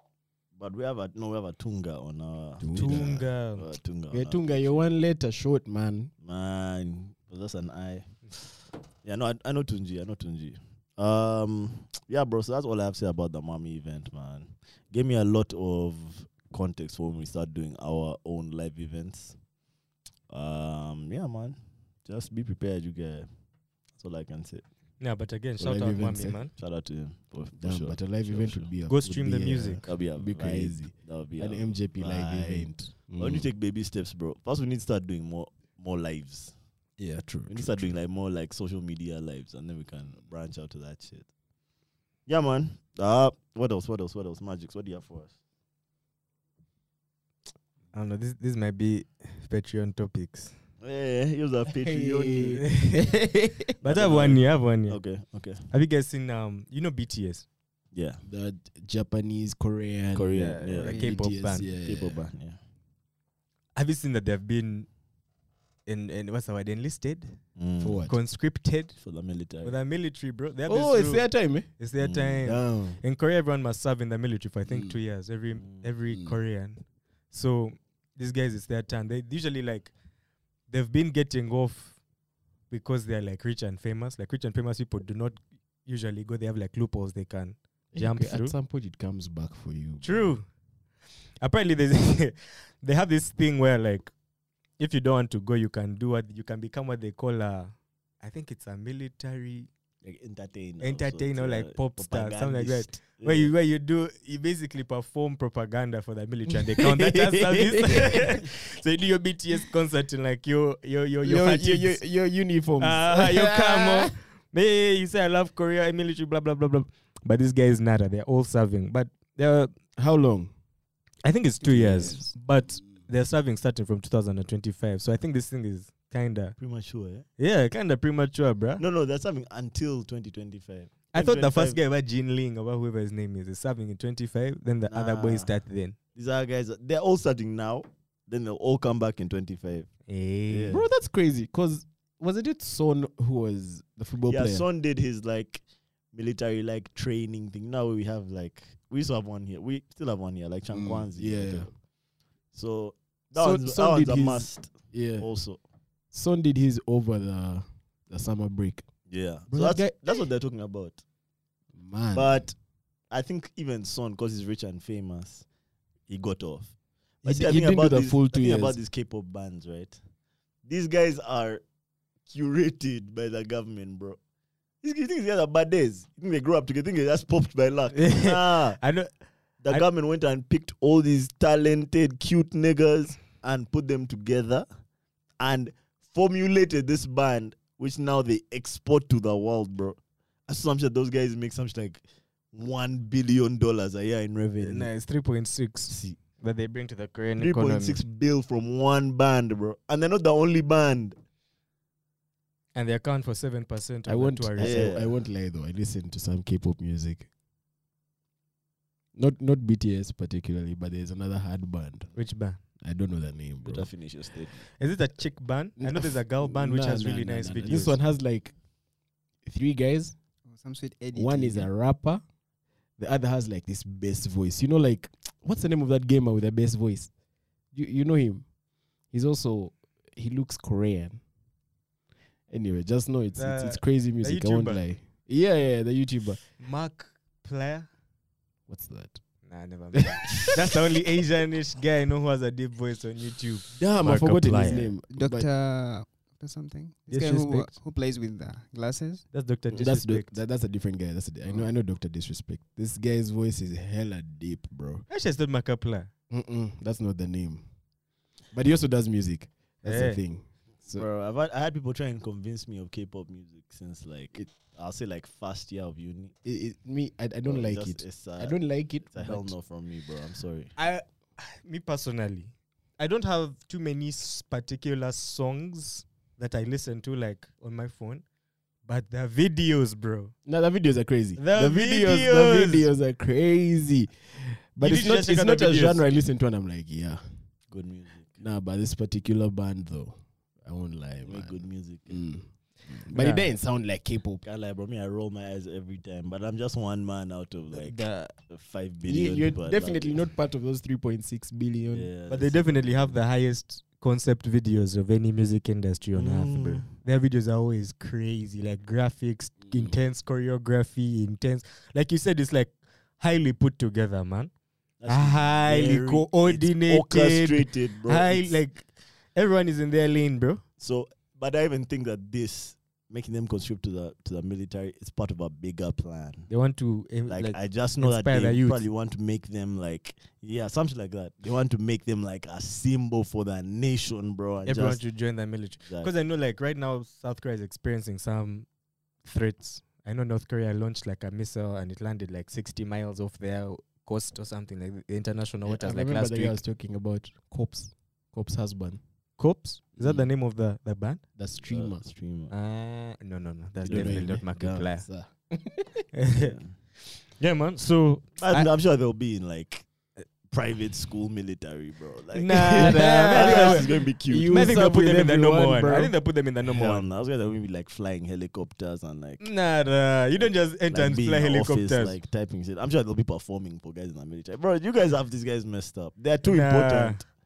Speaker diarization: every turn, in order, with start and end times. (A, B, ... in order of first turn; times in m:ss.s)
0:00.6-0:04.9 A
0:02.6-0:03.3 B
0:02.8-0:03.7 C
0:04.1-0:06.1 B
0:06.2-0:08.1 A
0:09.0-0:19.4 A
0:20.3-0:23.3 A
0:24.0-0:24.6 A
0:25.0-0:26.5 C
0:25.6-0:26.4 B
0:26.5-0:28.7 A
0:27.6-0:33.5 B
0:28.9-0:29.8 C
0:29.8-0:36.5 A
0:37.0-0:37.9 B
0:37.5-0:41.3 A
0:42.3-0:45.3 A
0:47.9-0:50.6 C
0:50.8-0:52.6 A
0:51.7-0:53.6 B
0:52.6-0:53.0 C
0:53.8-0:55.0 C
0:53.8-0:55.6 A
0:55.7-0:57.5 C
0:57.9-0:58.2 A
0:58.2-1:02.2 B
1:00.1-1:01.0 A
1:00.3-1:01.7 C
1:01.8-1:02.6 A
1:03.8-1:04.9 C
1:05.9-1:07.4 C
1:07.6-1:08.0 A
1:07.8-1:08.2 B
1:08.1-1:09.0 C
1:09.0-1:09.8 A
1:09.6-1:19.9 C
1:10.7-1:11.7 B
1:12.0-1:12.4 A
1:12.4-1:13.0 B
1:14.7-1:15.0 B
1:15.6-1:15.9 A
1:16.1-1:16.4 B
1:20.7-1:22.0 C
1:22.7-1:28.5 C
1:27.9-1:30.3 B
1:30.0-1:30.5 C
1:31.4-1:34.1 C
1:34.8-1:39.7 C
1:40.0-1:43.5 A
1:40.8-1:52.0 C
1:46.5-1:48.4 B
1:51.2-1:54.2 B
1:52.8-1:59.7 C
2:00.0-2:00.5 B
2:01.2-2:06.6 C
2:01.6-2:02.3 D
2:06.6-2:07.2 A
2:07.4-2:08.8 C
2:08.8-2:11.8 A
2:11.1-2:16.0 C
2:14.9-2:15.5 A
2:16.2-2:19.9 A
2:20.1-2:20.8 C
2:20.5-2:20.8 A
2:20.7-2:24.6 B
2:24.3-2:31.7 A
2:30.7-2:31.7 B
2:32.5-2:35.6 A
2:33.3-2:35.3 B
2:36.1-2:38.9 B
2:39.1-2:41.0 A
2:39.5-2:40.2 B
2:41.8-2:42.4 B
2:42.2-2:42.6 A
2:43.1-2:45.4 A
2:46.1-2:50.0 A
2:47.2-2:48.8 B
2:50.7-2:51.6 A
2:52.3-2:54.2 A
2:54.8-2:58.8 A
2:58.0-2:59.1 C
2:59.6-3:04.7 A
3:05.4-3:14.9 A
3:14.6-3:18.0 C
3:15.9-3:16.2 A
3:17.4-3:21.2 A
3:22.8-3:25.0 C
3:24.0-3:27.3 B
3:24.6-3:25.1 A
3:29.2-3:32.2 B
3:32.2-3:32.6 C
3:32.8-3:33.9 B
3:33.6-3:34.7 A
3:34.8-3:38.0 C
3:35.8-3:38.6 B
3:39.4-3:40.2 B
3:40.5-3:41.7 D
3:41.1-3:42.2 B
3:43.0-3:47.1 B
3:47.7-3:48.5 B
3:49.1-3:51.2 B
3:52.5-3:56.4 B
3:53.4-3:54.9 C
3:56.6-3:57.9 C
3:58.7-3:59.2 B
3:59.5-4:04.9 C
3:59.9-4:00.6 B
4:03.8-4:05.5 B
4:05.1-4:09.3 D
4:07.1-4:07.7 C
4:09.3-4:10.4 C
4:09.7-4:15.0 B
4:15.1-4:16.1 C
4:16.3-4:17.6 B
4:18.5-4:21.1 B
4:19.8-4:20.2 C
4:20.9-4:26.3 A
4:26.4-4:29.6 B
4:27.4-4:30.7 A
4:30.8-4:38.2 C
4:38.9-4:40.3 C
4:40.5-4:47.2 B
4:41.4-4:42.9 C
4:44.8-4:46.1 C
4:47.7-4:48.4 A
4:48.4-4:54.4 B
4:51.2-4:52.2 A
4:53.1-4:53.5 C
4:54.4-4:58.0 A
4:57.9-4:58.3 C
4:58.5-5:00.3 A
4:59.0-5:02.1 B
5:01.9-5:03.2 A
5:02.3-5:14.5 C
5:06.1-5:06.9 A
5:09.6-5:10.0 B
5:15.0-5:18.6 A
5:15.1-5:20.6 C
5:20.8-5:26.5 A
5:26.5-5:28.8 C
5:27.3-5:35.0 A
5:34.7-5:38.7 C
5:35.9-5:36.1 A
5:39.2-5:46.6 C
5:45.6-5:49.0 B
5:49.4-5:51.2 C
5:50.0-5:50.2 B
5:51.4-5:52.1 B
5:51.5-5:52.5 A
5:52.5-5:55.1 C
5:53.8-5:56.0 B
5:53.9-5:54.3 A
5:56.1-5:56.6 C
5:56.3-5:56.7 A
5:57.1-5:58.7 C
5:58.4-5:59.9 A
6:00.4-6:04.6 A
6:02.3-6:03.9 C
6:02.7-6:06.1 B
6:04.4-6:07.1 C
6:06.6-6:09.5 A
6:09.4-6:12.2 C
6:10.4-6:17.2 A
6:16.4-6:17.2 C